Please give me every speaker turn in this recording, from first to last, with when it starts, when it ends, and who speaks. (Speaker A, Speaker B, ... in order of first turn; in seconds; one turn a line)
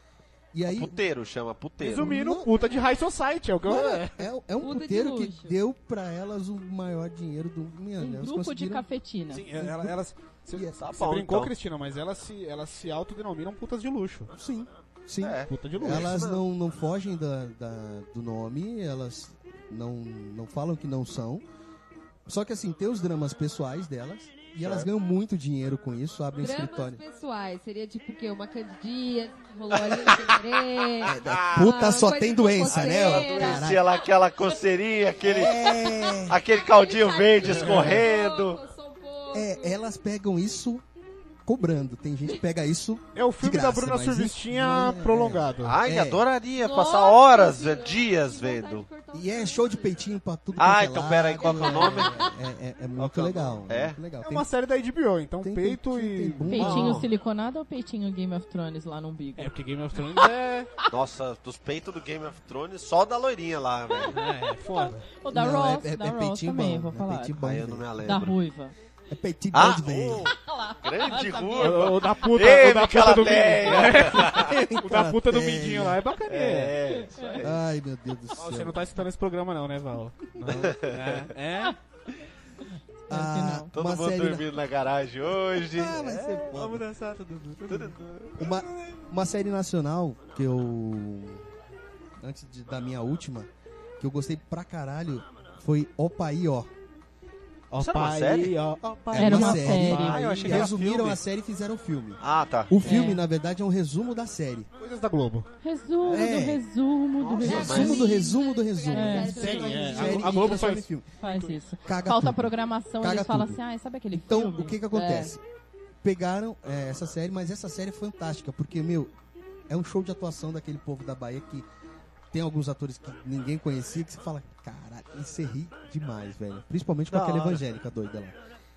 Speaker A: 0.5-1.0
Speaker B: 0.7-2.1
Speaker C: 1.8-4.3
Speaker A: 1.9-2.6
Speaker A: 3.6-8.8
Speaker D: 4.6-5.5
Speaker E: 8.0-9.4
Speaker C: 9.3-14.3
Speaker A: 9.5-9.9
Speaker A: 10.5-10.8
Speaker B: 10.8-11.5
Speaker A: 14.3-21.4
Speaker B: 15.2-16.4
Speaker C: 15.5-16.2
Speaker A: 22.2-27.0
Speaker B: 24.6-24.9
Speaker D: 26.4-33.8
Speaker B: 29.7-31.6
Speaker A: 31.0-33.8
Speaker B: 32.7-38.6
Speaker A: 35.2-36.4
Speaker D: 35.6-39.8
Speaker C: 37.4-38.0
Speaker A: 39.3-40.8
Speaker A: 41.5-46.2
Speaker C: 43.1-45.8
Speaker B: 45.6-48.9
Speaker D: 46.6-50.0
Speaker A: 49.1-54.5
Speaker B: 50.6-52.3
Speaker D: 51.4-52.3
Speaker B: 53.0-54.0
Speaker C: 54.2-56.6
Speaker A: 55.4-57.1
Speaker E: 56.5-60.3
Speaker B: 56.5-57.1
Speaker C: 59.4-60.7
Speaker B: 60.9-64.2
Speaker C: 64.1-65.1
Speaker E: 64.8-67.3
Speaker A: 65.3-67.9
Speaker B: 67.4-68.4
Speaker E: 68.0-68.7
Speaker A: 69.1-70.3
Speaker B: 69.5-74.5
Speaker E: 70.3-71.9
Speaker C: 71.5-76.8
Speaker A: 74.1-76.0
Speaker B: 76.3-77.6
Speaker E: 76.9-77.4
Speaker A: 77.4-78.8
Speaker C: 78.3-81.8
Speaker B: 80.5-81.3
Speaker E: 83.1-83.7
Speaker A: 83.1-84.5
Speaker B: 83.7-86.2
Speaker A: 85.5-86.8
Speaker C: 86.2-89.0
Speaker B: 87.7-88.4
Speaker A: 88.4-91.5
Speaker A: 92.2-96.7
Speaker C: 97.7-100.7
Speaker B: 97.8-98.5
Speaker A: 99.1-104.7
Speaker E: 99.2-100.2
Speaker B: 99.9-101.2
Speaker B: 102.2-102.8
Speaker E: 102.8-103.2
Speaker C: 104.8-105.5
Speaker E: 105.6-108.3
Speaker A: 106.0-106.6
Speaker B: 107.3-108.1
Speaker A: 107.4-111.1
Speaker D: 107.4-110.6
Speaker E: 108.9-109.7
Speaker C: 109.3-111.6
Speaker E: 111.2-114.8
Speaker A: 111.8-113.6
Speaker A: 114.1-115.4
Speaker D: 114.9-115.3
Speaker A: 116.0-119.1
Speaker A: 119.7-121.7
Speaker A: 122.3-128.3
Speaker B: 127.1-127.6